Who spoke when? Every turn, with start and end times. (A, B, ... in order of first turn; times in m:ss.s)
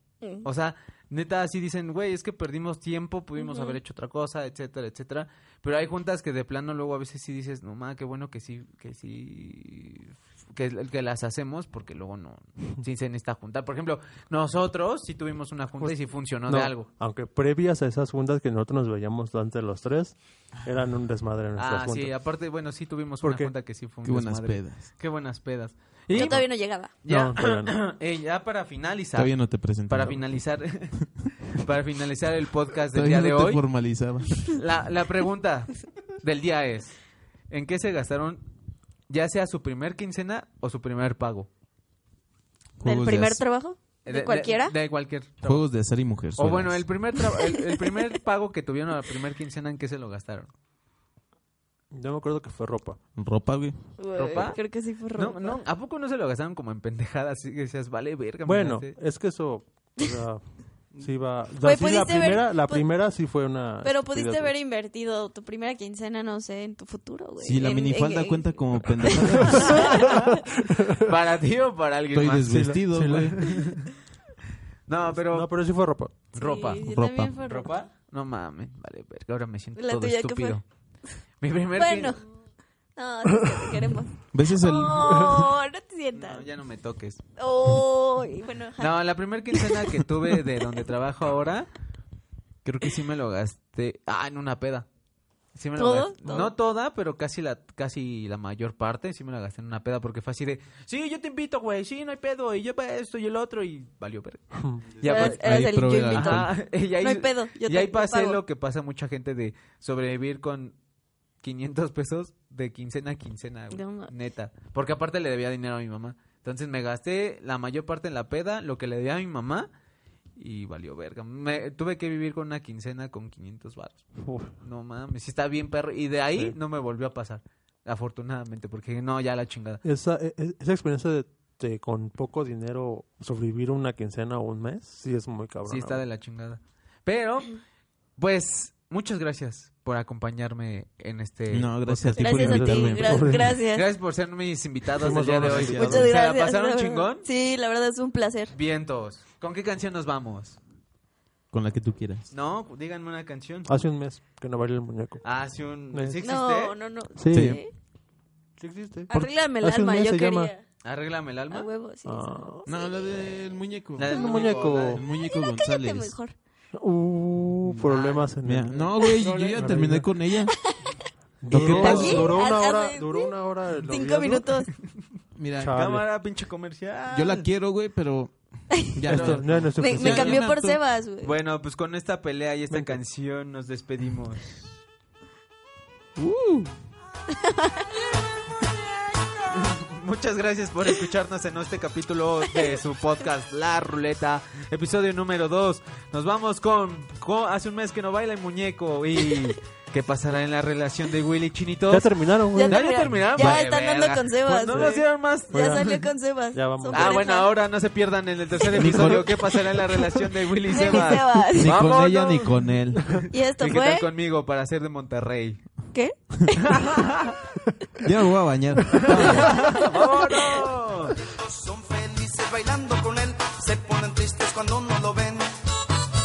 0:00.4-0:16.9 A
0:03.4-0:03.8 B
0:16.5-0:22.1 C
0:21.6-0:26.5 A
0:23.2-0:23.5 C
0:24.0-0:24.9 D
0:26.1-0:26.9 B
0:27.0-0:33.6 A
0:27.1-0:27.7 C
0:29.1-0:30.2 D
0:32.9-0:34.6 D
0:34.4-0:37.0 A
0:37.5-0:38.4 A
0:39.1-0:41.5 A
0:42.8-0:43.4 D
0:42.8-0:44.7 B
0:44.0-0:45.6 A
0:45.4-0:46.9 D
0:46.4-0:50.5 A
0:47.2-0:48.0 B
0:51.9-0:53.0 C
0:53.2-0:53.8 D
0:54.0-0:55.6 B
0:54.1-0:54.6 A
0:55.2-0:59.0 A
0:58.4-1:00.4 C
1:01.0-1:04.5 C
1:01.6-1:02.8 B
1:03.8-1:10.4 B
1:07.4-1:10.1 D
1:09.6-1:10.0 C
1:11.0-1:13.2 A
1:12.1-1:13.4 D
1:12.5-1:13.9 C
1:14.9-1:15.5 A
1:15.1-1:16.1 C
1:16.3-1:16.8 A
1:16.3-1:17.7 B
1:16.8-1:17.3 D
1:17.4-1:20.6 A
1:19.8-1:20.6 B
1:21.4-1:22.2 A
1:21.8-1:22.2 B
1:23.0-1:26.4 B
1:24.3-1:25.4 D
1:26.1-1:27.2 A
1:27.4-1:28.9 B
1:28.8-1:31.7 A
1:29.5-1:29.8 B
1:32.6-1:34.9 A
1:35.6-1:50.8 A
1:35.8-1:36.5 B
1:44.6-1:44.9 C
1:45.0-1:46.5 D
1:45.0-1:48.4 B
1:51.4-1:59.7 A
1:53.7-1:54.1 B
2:00.4-2:04.1 A
2:04.2-2:04.5 C
2:04.6-2:09.8 A
2:09.8-2:16.0 C
2:15.6-2:17.6 A
2:18.2-2:21.7 A
2:21.5-2:23.3 D
2:21.8-2:23.6 C
2:22.2-2:23.9 B
2:23.7-2:27.3 A
2:25.0-2:25.8 C
2:25.1-2:26.1 D
2:25.8-2:28.5 B
2:28.5-2:30.6 A
2:31.5-2:32.3 D
2:32.3-2:33.7 A
2:33.7-2:35.2 C
2:35.2-2:36.7 A
2:35.9-2:36.2 C
2:36.2-2:37.7 B
2:37.2-2:37.6 C
2:37.3-2:37.6 D
2:38.6-2:40.5 C
2:39.1-2:40.6 B
2:40.8-2:41.7 A
2:41.5-2:42.8 B
2:42.0-2:42.6 C
2:42.6-2:46.2 D
2:44.0-2:45.0 A
2:44.1-2:45.0 C
2:45.1-2:46.3 B
2:46.7-2:48.9 C
2:47.8-2:49.9 A
2:48.4-2:50.5 D
2:49.6-2:50.0 C
2:50.5-2:50.9 B
2:51.4-2:54.5 C
2:51.5-2:52.2 D
2:51.5-2:52.4 A
2:51.6-2:54.7 B
2:55.4-2:55.8 D
2:55.6-2:56.0 C
2:55.6-2:57.5 A
2:57.1-3:00.8 D
2:59.1-2:59.5 A
2:59.1-3:00.4 C
2:59.8-3:01.3 B
3:01.2-3:04.8 A
3:02.7-3:03.0 C
3:06.2-3:06.7 D
3:07.3-3:07.9 B
3:09.5-3:22.1 A
3:12.5-3:12.8 B
3:21.9-3:23.6 C
3:22.6-3:27.5 B
3:22.7-3:26.0 A
3:24.6-3:26.0 C
3:26.5-3:27.3 C
3:26.9-3:35.6 A
3:28.7-3:29.6 D
3:30.7-3:31.7 B
3:31.5-3:33.3 D
3:33.3-3:34.1 B
3:35.9-3:36.8 B
3:36.7-3:37.4 A
3:38.0-3:39.7 D
3:38.9-3:41.2 A
3:39.1-3:40.6 B
3:41.2-3:45.6 E